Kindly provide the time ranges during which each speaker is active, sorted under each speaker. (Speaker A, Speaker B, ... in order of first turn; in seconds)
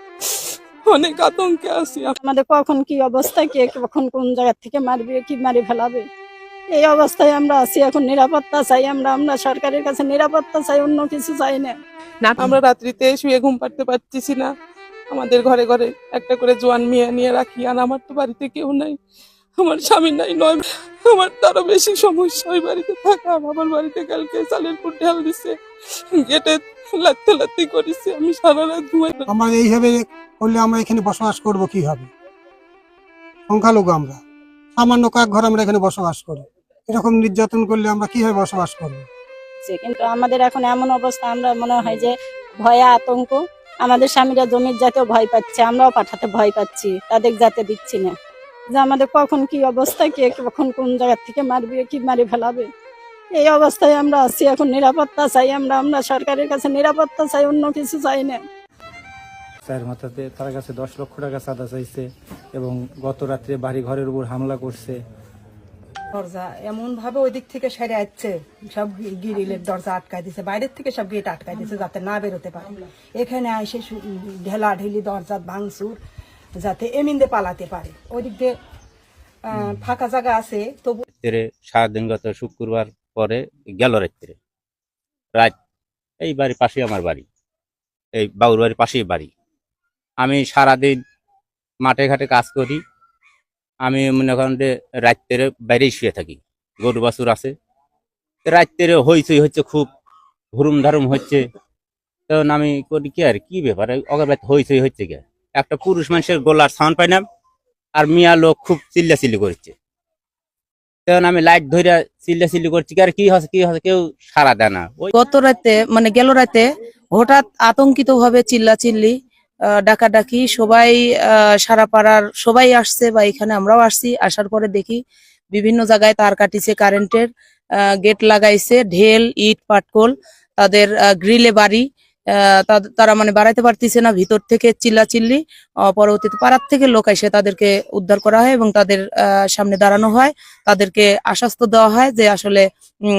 Speaker A: 0.8-2.1, 12.4-14.5, 15.1-19.0, 19.6-25.6, 26.1-29.2
Speaker B: 2.2-6.0, 6.7-11.8, 39.6-48.1, 48.7-52.7, 53.3-58.4
Speaker C: 29.3-32.1, 33.5-34.2, 34.8-39.1
Speaker D: 59.6-65.0
Speaker E: 66.1-76.0, 76.6-78.5, 79.4-81.0
Speaker F: 81.1-84.3, 86.2-87.2, 88.2-89.3, 90.2-91.0, 91.8-92.8, 93.8-97.5, 98.5-99.9, 100.5-101.5, 102.3-107.2, 108.0-109.7, 111.0-115.1
Speaker G: 115.1-119.2, 119.8-125.0, 125.5-127.3, 128.0-139.0, 139.5-142.6